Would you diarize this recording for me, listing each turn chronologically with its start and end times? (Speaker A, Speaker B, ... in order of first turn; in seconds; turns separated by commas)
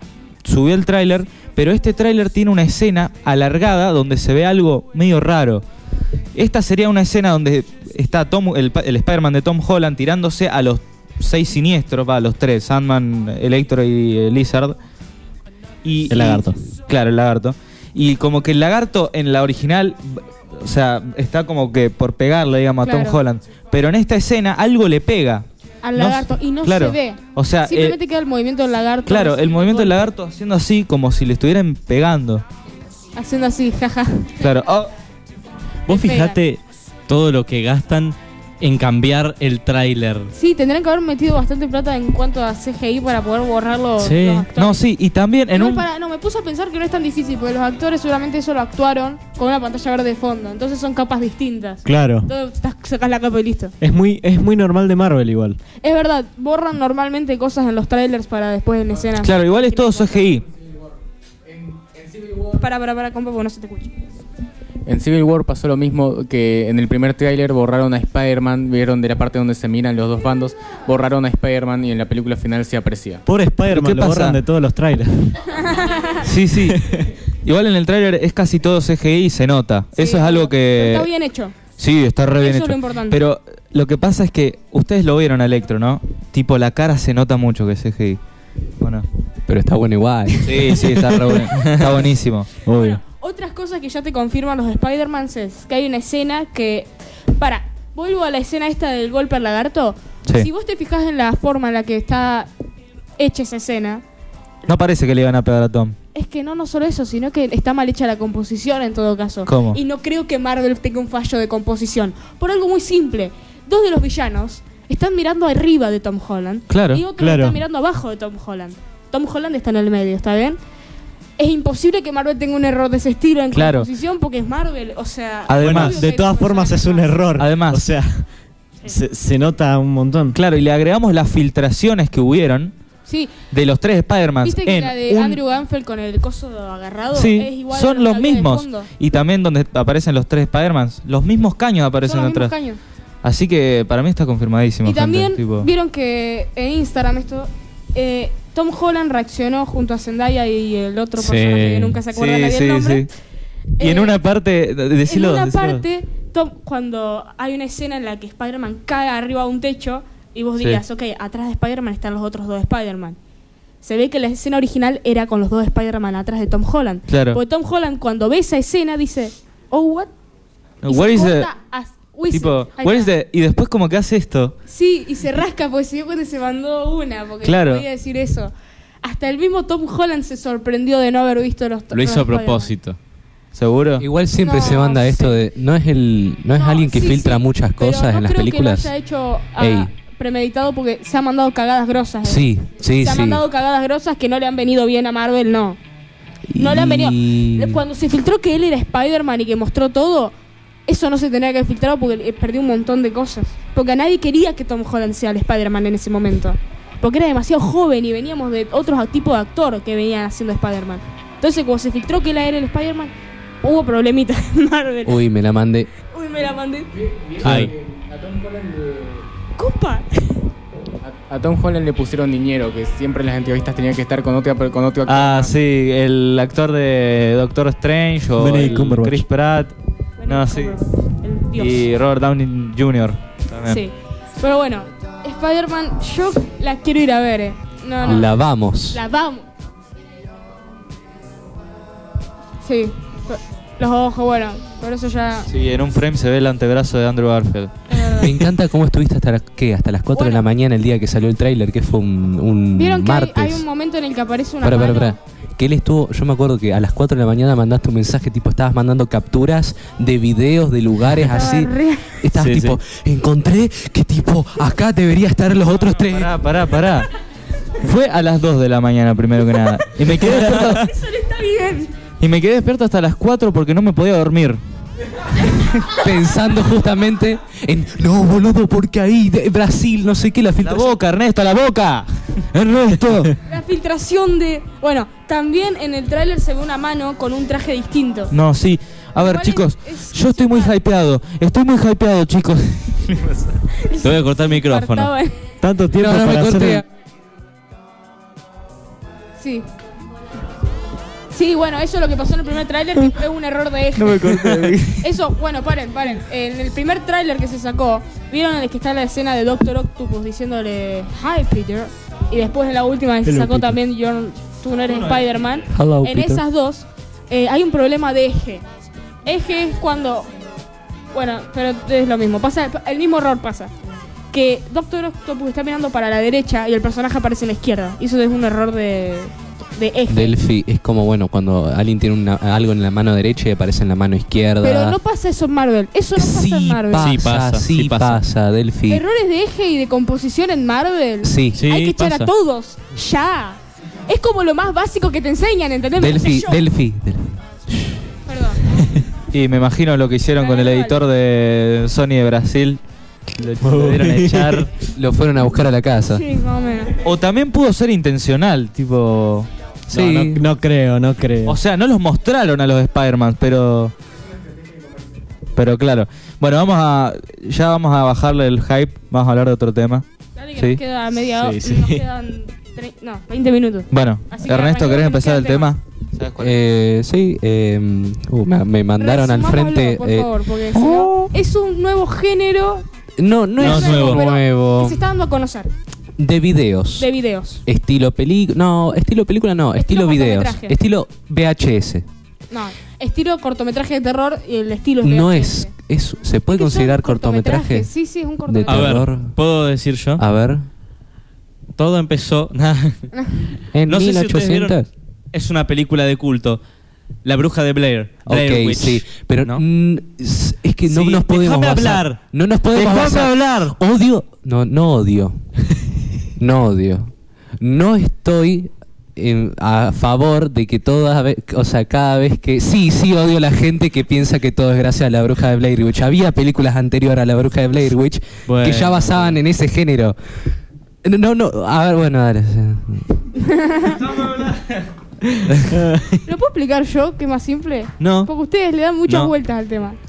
Speaker A: 0.4-5.6, Speaker A: 6.3-14.8, Speaker A: 15.8-28.0, Speaker B: 16.1-16.6, Speaker C: 22.8-23.2, Speaker C: 25.8-30.1, Speaker A: 29.1-32.4, Speaker C: 33.1-34.3, Speaker A: 34.4-34.9, Speaker C: 35.9-36.4, Speaker D: 35.9-40.3, Speaker C: 40.3-44.8, Speaker D: 44.0-44.5, Speaker A: 44.5-45.9, Speaker C: 45.5-53.7, Speaker B: 51.8-52.3, Speaker B: 53.8-55.6, Speaker C: 55.8-60.2, Speaker A: 59.2-60.4, Speaker E: 61.5-62.5, Speaker C: 62.5-64.0, Speaker E: 64.8-73.2, Speaker B: 73.2-75.6, Speaker A: 73.7-74.4, Speaker C: 75.5-76.2, Speaker A: 76.2-76.8, Speaker A: 77.4-81.1, Speaker C: 80.0-81.5, Speaker A: 81.8-88.2, Speaker C: 82.4-83.2, Speaker A: 88.8-89.0, Speaker F: 89.5-91.4, Speaker A: 90.4-92.5, Speaker D: 91.5-91.8, Speaker B: 92.7-93.0, Speaker C: 92.7-102.5, Speaker C: 103.2-104.0, Speaker A: 104.7-106.0, Speaker C: 106.1-120.6, Speaker A: 109.5-109.8, Speaker A: 116.7-117.0, Speaker B: 117.1-117.6, Speaker C: 121.4-127.2, Speaker A: 123.5-123.9, Speaker A: 125.5-126.0, Speaker B: 125.6-128.3, Speaker A: 127.4-127.9, Speaker B: 128.8-130.4, Speaker A: 130.3-132.7, Speaker C: 133.1-133.3, Speaker A: 133.5-135.4, Speaker C: 134.4-138.9, Speaker A: 137.1-142.5, Speaker C: 142.0-142.8, Speaker A: 143.2-145.7, Speaker C: 144.8-153.1, Speaker B: 151.2-152.0, Speaker A: 152.1-153.1, Speaker C: 153.8-154.2, Speaker A: 153.8-155.8, Speaker C: 155.0-163.2, Speaker C: 163.8-170.1, Speaker A: 167.1-167.4, Speaker A: 170.8-171.5, Speaker C: 170.8-173.1, Speaker A: 172.3-174.5, Speaker C: 174.7-178.5, Speaker A: 177.4-177.8, Speaker C: 179.0-182.7, Speaker D: 181.9-183.0, Speaker A: 183.5-184.1, Speaker F: 184.0-188.9, Speaker C: 184.4-185.4, Speaker C: 186.5-195.8, Speaker F: 189.6-189.9, Speaker F: 192.2-193.4, Speaker F: 196.5-197.8, Speaker C: 196.6-200.3, Speaker C: 200.9-215.3, Speaker F: 215.0-215.9, Speaker C: 216.0-216.9, Speaker E: 216.9-219.2, Speaker D: 217.4-217.7, Speaker C: 219.6-220.4, Speaker E: 221.0-225.6, Speaker A: 225.1-229.7, Speaker B: 228.4-229.2, Speaker C: 230.2-231.8, Speaker A: 230.3-230.8, Speaker A: 231.5-233.8, Speaker C: 233.7-238.4, Speaker F: 238.0-239.0, Speaker C: 238.9-239.5, Speaker C: 242.6-245.5, Speaker A: 245.5-248.1, Speaker C: 247.9-248.4, Speaker F: 248.2-253.6, Speaker C: 250.1-250.4, Speaker C: 252.7-255.2, Speaker F: 254.6-266.3, Speaker C: 261.2-262.2, Speaker D: 262.4-262.8, Speaker A: 265.7-267.1, Speaker A: 267.8-270.9, Speaker C: 269.6-271.9, Speaker A: 272.2-274.6, Speaker F: 275.9-281.0, Speaker A: 280.6-283.4, Speaker C: 283.4-288.3, Speaker A: 288.3-293.5, Speaker C: 289.2-290.8, Speaker C: 293.7-295.4, Speaker D: 294.0-295.1, Speaker B: 295.6-296.8, Speaker F: 295.9-296.8, Speaker C: 299.4-299.7, Speaker C: 301.3-318.6, Speaker A: 304.0-305.1, Speaker B: 313.2-313.8, Speaker F: 315.7-316.4, Speaker C: 319.2-320.3, Speaker C: 321.1-323.7, Speaker C: 324.3-330.4, Speaker F: 330.1-335.0, Speaker C: 334.6-337.1, Speaker F: 336.1-339.0, Speaker D: 336.9-338.2, Speaker C: 338.9-346.7, Speaker F: 341.2-341.6, Speaker D: 341.6-342.3, Speaker F: 346.0-348.0, Speaker C: 348.2-348.8, Speaker A: 349.3-352.8, Speaker C: 350.4-351.0, Speaker A: 353.3-354.7, Speaker B: 353.6-354.6, Speaker F: 354.9-356.2, Speaker C: 356.1-357.0, Speaker A: 357.0-359.5, Speaker F: 359.9-360.4, Speaker B: 359.9-361.6, Speaker A: 361.4-363.9, Speaker E: 364.6-364.9, Speaker A: 365.6-370.0, Speaker C: 370.4-375.7, Speaker B: 371.3-372.0, Speaker A: 373.9-376.6, Speaker F: 376.4-381.3, Speaker C: 379.0-382.8, Speaker F: 383.2-385.0, Speaker C: 383.6-385.7, Speaker D: 383.6-384.2, Speaker F: 386.2-387.1, Speaker C: 387.0-387.6, Speaker F: 387.6-392.1, Speaker C: 389.7-390.8, Speaker C: 392.5-395.7, Speaker F: 395.0-397.9, Speaker C: 396.5-398.9, Speaker F: 398.4-399.3, Speaker D: 398.7-400.2, Speaker F: 400.2-400.6, Speaker D: 401.8-403.1, Speaker F: 403.7-404.9, Speaker D: 403.9-404.8, Speaker D: 405.3-406.6, Speaker D: 407.2-409.6, Speaker F: 408.2-415.4, Speaker D: 410.9-412.2, Speaker D: 412.7-413.8, Speaker F: 416.4-430.1, Speaker D: 428.5-429.4, Speaker F: 431.0-433.2, Speaker C: 433.4-434.1, Speaker A: 434.2-434.6, Speaker B: 435.7-436.2, Speaker C: 436.2-440.0, Speaker D: 438.0-438.3, Speaker D: 439.1-439.3